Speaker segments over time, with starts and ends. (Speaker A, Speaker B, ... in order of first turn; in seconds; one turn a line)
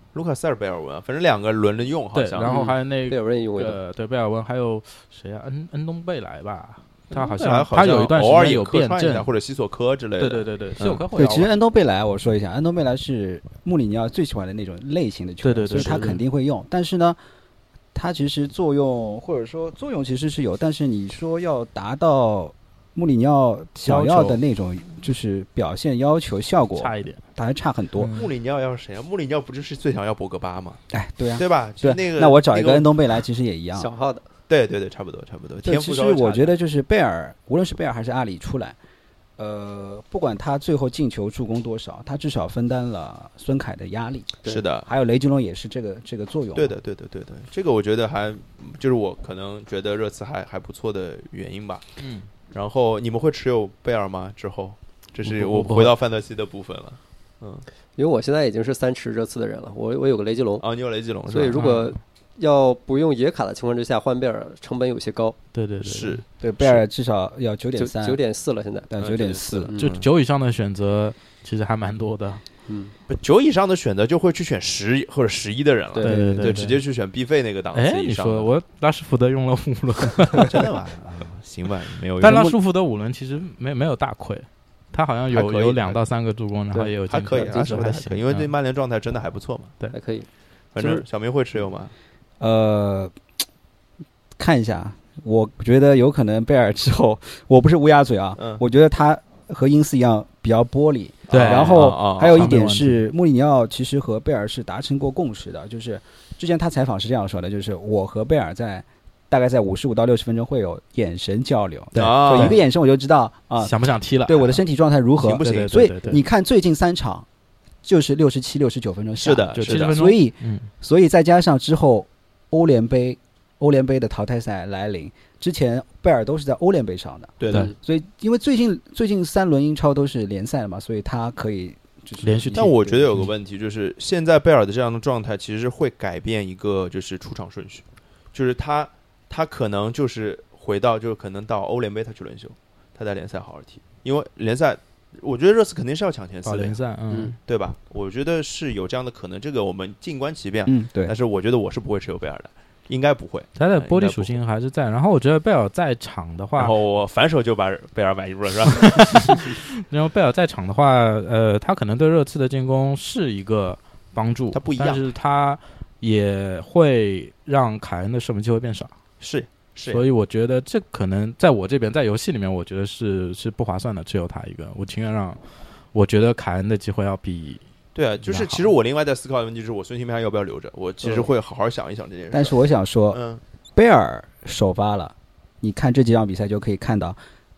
Speaker A: 0.1-2.5
Speaker B: 2.1-9.3
Speaker C: 2.4-3.8
Speaker A: 7.1-11.0
Speaker B: 10.2-11.5
Speaker D: 11.1-17.2
Speaker B: 15.4-16.2
Speaker A: 15.7-16.1
Speaker D: 17.9-28.1
Speaker B: 23.8-24.4
Speaker B: 26.8-27.2
Speaker B: 28.0-28.3
Speaker A: 28.1-30.8
Speaker D: 30.9-33.9
Speaker A: 31.4-32.9
Speaker C: 33.7-34.2
Speaker A: 34.5-36.5
Speaker D: 35.6-38.8
Speaker D: 39.4-46.8
Speaker A: 44.5-44.9
Speaker A: 46.5-51.9
Speaker B: 52.0-52.3
Speaker A: 52.5-57.6
Speaker B: 55.2-56.0
Speaker C: 58.0-60.6
Speaker A: 60.6-61.6
Speaker C: 61.3-65.3
Speaker B: 61.5-62.0
Speaker B: 65.5-66.2
Speaker A: 65.8-66.8
Speaker D: 66.4-68.2
Speaker C: 67.8-68.9
Speaker D: 68.9-69.7
Speaker A: 69.0-70.1
Speaker C: 69.7-69.9
Speaker B: 69.7-72.4
Speaker C: 72.7-72.9
Speaker A: 73.1-78.5
Speaker B: 76.0-76.8
Speaker D: 76.0-76.7
Speaker B: 77.7-80.7
Speaker A: 80.4-82.5
Speaker B: 82.2-88.5
Speaker D: 82.2-82.5
Speaker A: 85.3-86.0
Speaker C: 86.7-87.5
Speaker A: 87.1-89.7
Speaker C: 89.9-91.0
Speaker A: 90.7-91.9
Speaker D: 92.4-93.1
Speaker D: 94.4-117.2
Speaker A: 101.3-102.5
Speaker B: 101.3-103.0
Speaker B: 111.9-112.6
Speaker A: 112.0-112.6
Speaker B: 113.6-114.6
Speaker A: 115.2-115.8
Speaker B: 115.4-116.2
Speaker D: 117.8-133.1
Speaker A: 119.2-120.0
Speaker B: 119.5-120.7
Speaker A: 127.4-127.7
Speaker B: 132.2-133.3
Speaker A: 132.5-146.8
Speaker B: 146.4-147.4
Speaker A: 147.4-154.4
Speaker D: 150.7-151.1
Speaker B: 153.6-156.8
Speaker A: 156.6-159.5
Speaker B: 158.7-168.9
Speaker A: 164.5-165.1
Speaker A: 169.2-170.0
Speaker B: 169.9-175.4
Speaker B: 175.9-177.6
Speaker A: 177.9-182.5
Speaker B: 178.2-178.7
Speaker C: 181.0-181.3
Speaker D: 182.3-183.2
Speaker A: 183.1-183.4
Speaker D: 183.7-187.2